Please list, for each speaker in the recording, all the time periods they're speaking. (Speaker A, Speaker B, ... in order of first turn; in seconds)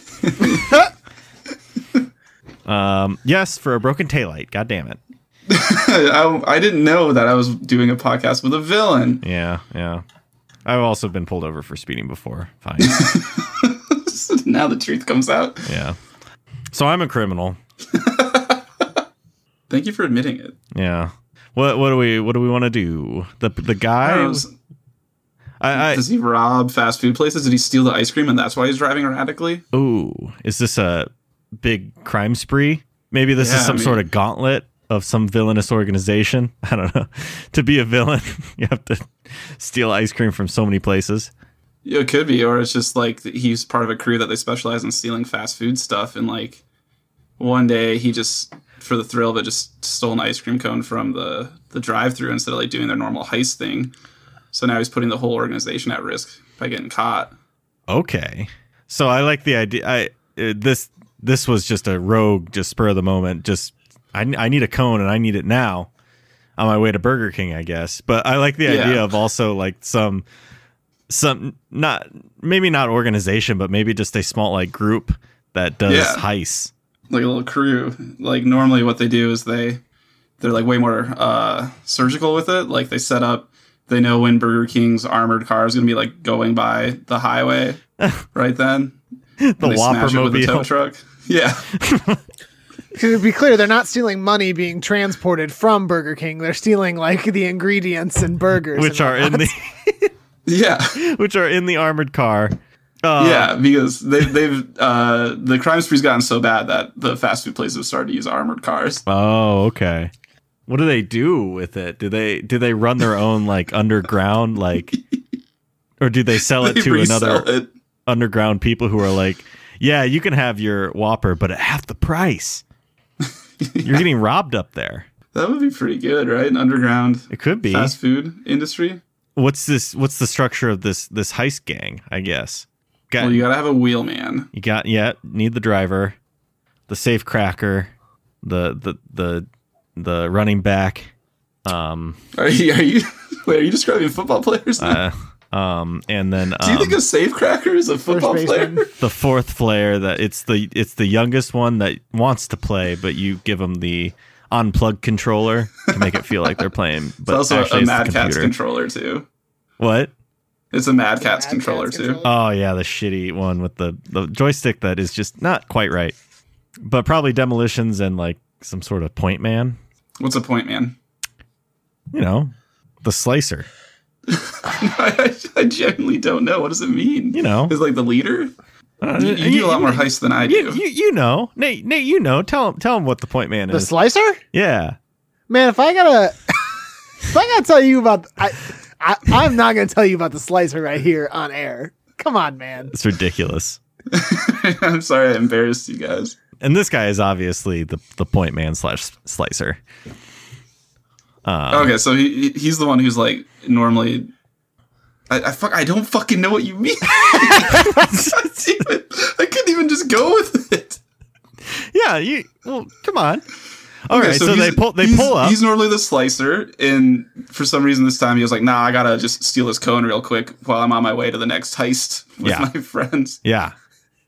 Speaker A: 0.2-0.8, 5.5-9.2, 12.8-15.7, 17.9-18.6, 19.7-20.6, 24.0-24.5, 25.7-29.6, 33.4-34.0, 41.8-46.6, 47.4-53.9, 54.5-57.3, 68.6-69.1, 75.9-76.2, 77.1-79.8, 80.4-87.8, 88.3-89.0, 89.6-91.7, 100.5-101.0, 103.2-109.0, 116.4-117.7, 123.6-124.0, 125.3-129.0, 133.2-134.5, 142.3-145.0, 146.6-148.9, 157.3-159.2, 160.7-162.2, 170.2-170.9, 174.3-178.5, 179.2-180.8, 194.1-196.3, 201.7-204.3, 205.3-211.0, 214.1-223.4
Speaker B: 2.6-5.0, 9.2-10.0, 10.6-13.0, 15.7-16.0, 16.7-17.6, 20.7-24.4, 25.6-26.0, 29.7-41.3, 57.9-65.9, 66.6-70.2, 71.1-76.7, 89.4-90.7, 91.8-92.2, 98.7-100.1, 100.9-103.5, 109.1-110.1, 110.7-115.0, 116.0-117.5, 118.1-122.6, 123.8-125.0, 127.3-128.0, 129.3-133.4, 134.5-136.2, 136.9-137.9, 138.4-141.1, 141.7-142.2, 144.8-147.0, 149.0-158.5, 159.8-160.1, 162.2-166.1, 166.8-169.8, 172.1-172.5, 173.0-173.7, 177.3-177.7, 179.0-183.9, 184.5-185.0, 192.9-193.8, 196.6-199.8, 201.4-201.9, 207.4-208.8, 211.7-213.4, 214.1-215.6, 222.4-222.7, 223.4-223.7
Speaker C: 92.9-99.5, 148.1-148.9, 161.2-162.4, 183.7-184.4, 185.5-192.9